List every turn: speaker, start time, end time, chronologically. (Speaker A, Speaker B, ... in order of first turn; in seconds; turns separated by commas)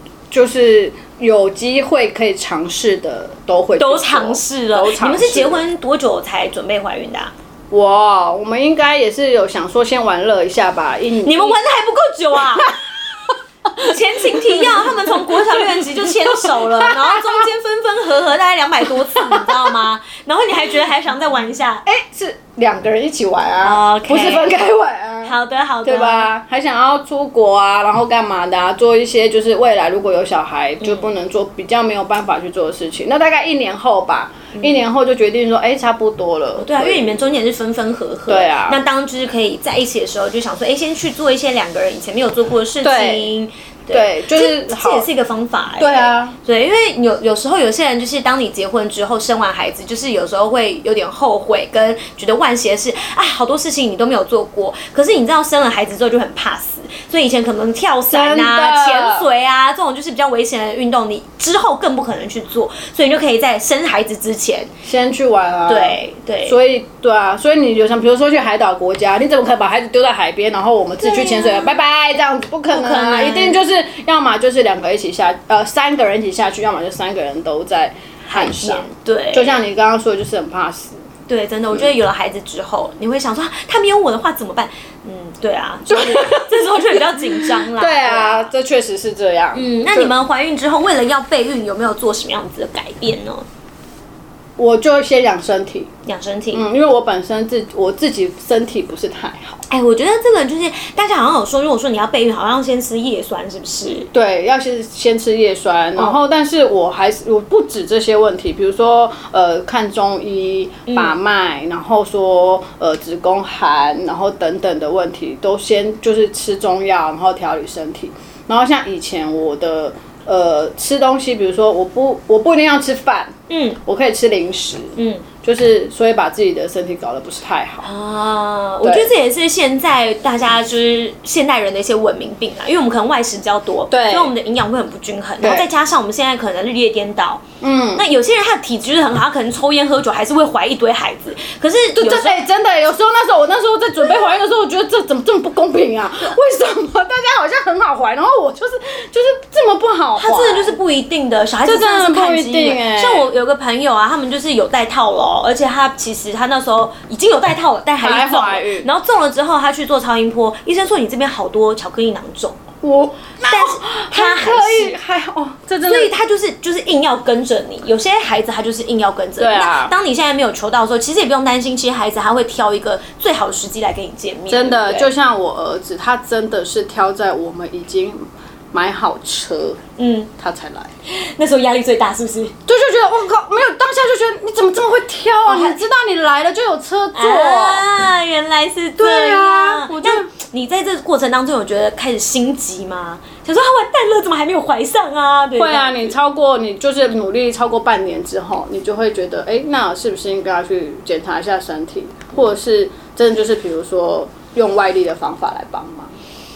Speaker A: 0.3-5.6, Speaker B: 3.8-7.3, Speaker A: 7.7-11.6, Speaker B: 11.2-12.8, Speaker B: 13.8-21.8, Speaker A: 13.8-15.8, Speaker A: 16.3-17.4, Speaker A: 18.8-19.8, Speaker A: 21.9-37.4, Speaker B: 23.6-24.6, Speaker B: 25.2-26.3, Speaker B: 30.8-31.1, Speaker B: 36.6-64.7, Speaker A: 38.3-38.8, Speaker A: 42.8-43.3, Speaker A: 43.9-45.1, Speaker A: 45.8-46.4, Speaker A: 58.1-59.3, Speaker A: 64.8-81.0, Speaker B: 65.7-66.6, Speaker B: 71.0-71.8, Speaker B: 72.7-73.6, Speaker B: 78.2-79.6, Speaker B: 81.3-88.5, Speaker A: 81.7-82.0, Speaker A: 85.9-90.1, Speaker B: 89.5-93.5, Speaker A: 94.6-95.9, Speaker B: 96.1-96.7, Speaker A: 96.5-99.6, Speaker B: 99.7-104.1, Speaker A: 104.1-123.3, Speaker B: 110.9-111.2, Speaker B: 123.5-123.8, Speaker A: 123.9-127.9, Speaker B: 125.0-125.2, Speaker B: 127.8-137.4, Speaker A: 128.8-129.1, Speaker A: 133.9-134.3, Speaker A: 135.4-135.7, Speaker A: 137.6-138.1, Speaker B: 137.9-142.4, Speaker A: 141.9-150.8, Speaker B: 150.2-162.6, Speaker A: 151.7-153.3, Speaker A: 158.0-158.9, Speaker A: 162.8-166.1, Speaker B: 163.5-165.0, Speaker B: 165.8-175.1, Speaker A: 169.4-169.9, Speaker A: 174.5-179.8, Speaker B: 180.0-180.3, Speaker A: 180.4-180.9, Speaker B: 181.1-182.6, Speaker A: 182.7-187.8, Speaker B: 185.5-185.8, Speaker B: 187.2-196.2, Speaker A: 189.0-190.3, Speaker A: 195.6-206.1